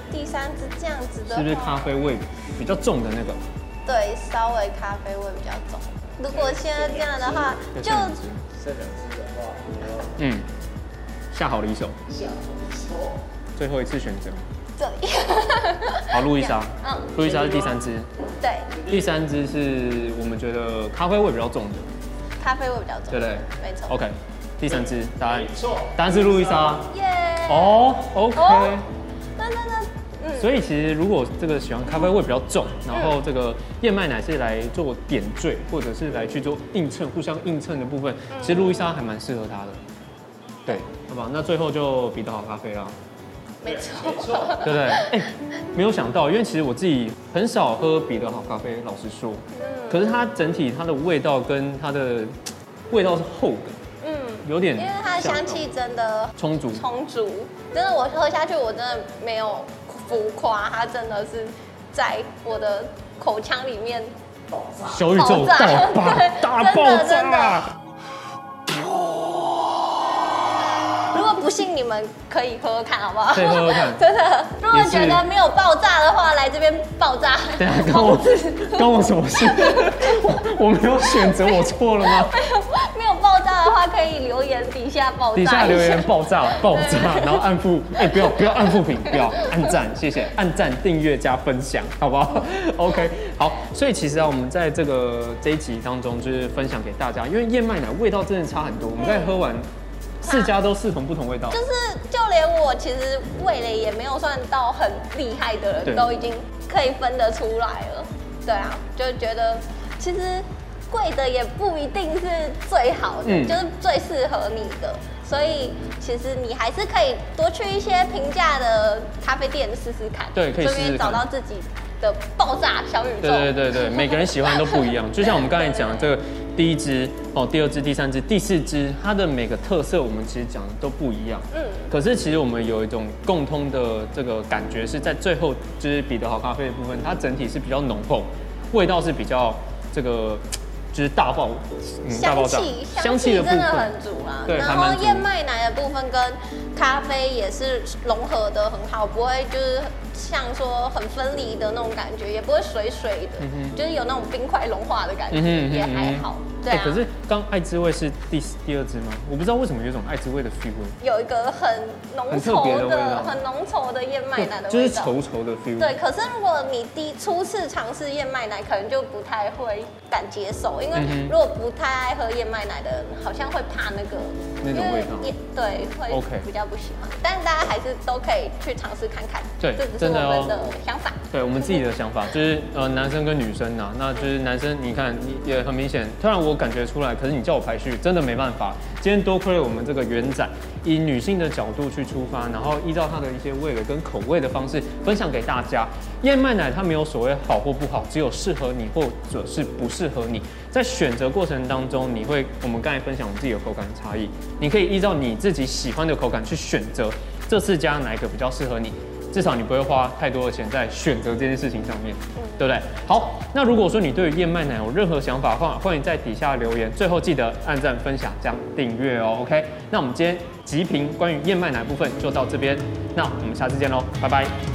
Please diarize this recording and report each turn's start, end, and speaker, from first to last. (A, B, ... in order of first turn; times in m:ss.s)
0:00.1-0:01.9 A
0:01.3-0:03.4 B
0:03.9-0:08.2 A
0:07.7-0:08.5 B
0:08.6-0:10.0 C
0:10.2-0:10.4 B
0:11.3-0:12.0 B
0:12.2-0:13.1 C
0:13.6-0:14.4 B
0:14.8-0:17.3 A
0:16.1-0:18.1 B
0:18.4-0:18.8 A
0:18.8-0:21.9 B
0:22.4-0:24.0 A
0:23.1-0:26.9 B
0:26.9-0:28.8 A
0:27.5-0:28.8 B
0:29.4-0:30.5 A
0:30.4-0:39.8 B
0:32.9-0:33.2 A
0:38.3-0:38.9 A
0:40.7-0:43.0 B
0:43.6-0:45.2 A
0:44.5-0:52.4 B
0:49.5-0:50.1 A
0:52.9-0:53.8 B
0:54.0-1:04.1 A
0:54.4-0:55.6 B
0:56.4-0:56.8 B
1:04.8-1:07.8 B
1:05.1-1:07.6 A
1:11.1-1:20.2 A
1:13.3-1:14.0 B
1:14.7-1:15.2 B
1:17.6-1:22.4 B
1:21.2-1:27.4 A
1:25.4-1:39.7 B
1:28.1-1:28.5 A
1:29.1-1:29.5 A
1:39.0-1:39.4 A
1:40.2-1:41.6 B
1:40.2-1:40.5 A
1:41.5-2:06.1 A
1:45.9-1:46.1 B
1:53.2-1:53.6 B
2:00.3-2:01.3 B
2:03.2-2:24.0 B
2:11.5-2:11.9 A
2:22.1-2:37.0 A
2:24.5-2:25.3 B
2:33.4-2:33.8 B
2:35.3-2:41.0 B
2:41.0-2:45.1 A
2:42.3-2:43.4 B
2:44.4-2:46.0 B
2:45.8-3:01.2 A
2:50.9-2:51.4 B
2:54.6-2:55.3 B
2:56.1-2:56.5 B
2:59.6-3:00.6 B
3:01.3-3:44.5 B
3:32.4-3:32.7 A